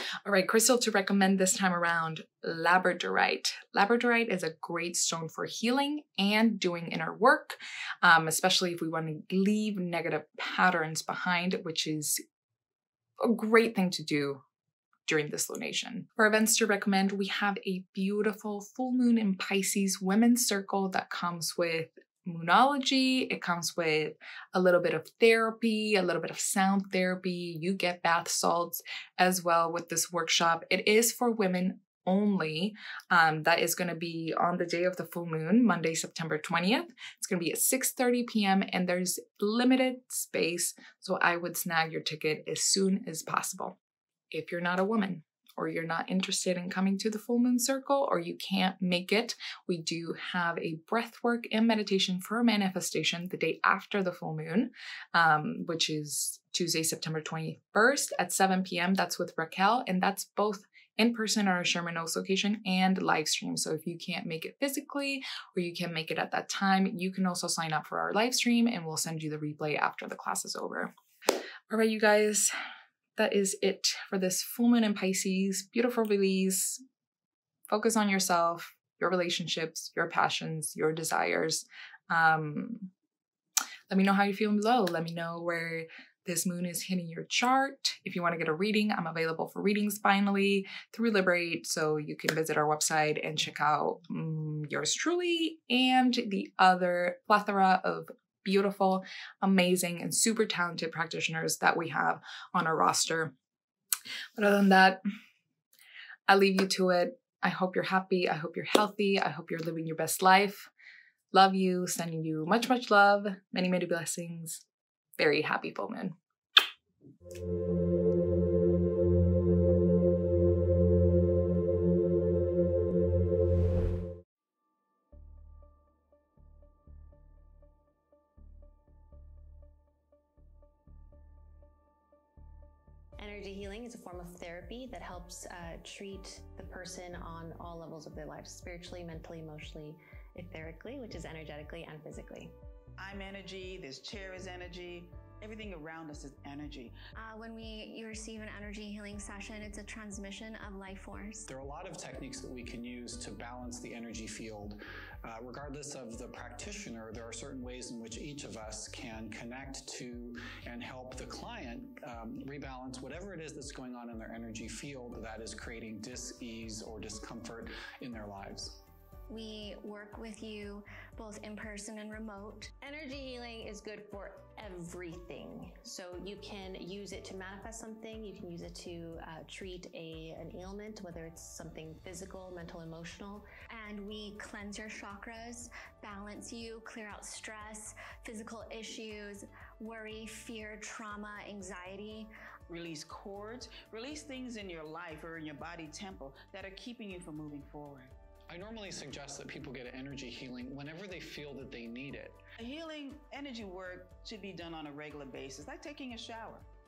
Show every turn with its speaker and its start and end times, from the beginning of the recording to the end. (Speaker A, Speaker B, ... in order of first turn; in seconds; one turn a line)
Speaker A: 0.2-12.2
Speaker A: 13.2-14.4
Speaker A: 15.1-43.8
Speaker A: 44.3-70.9
Speaker A: 71.7-72.5
Speaker A: 73.2-76.8
Speaker A: 77.7-82.9
Speaker A: 83.9-103.3
Speaker A: 104.4-105.0
Speaker A: 106.3-110.7
Speaker A: 111.3-114.6
Speaker A: 115.2-116.2
Speaker B: 133.2-142.5
Speaker C: 143.0-146.9
Speaker D: 147.2-151.5
Speaker E: 151.5-168.8
Speaker D: 169.3-172.7
Speaker B: 172.8-183.5
Speaker D: 183.7-192.3
Speaker C: 192.7-198.1
Speaker E: 198.5-202.4
Speaker C: 202.6-206.7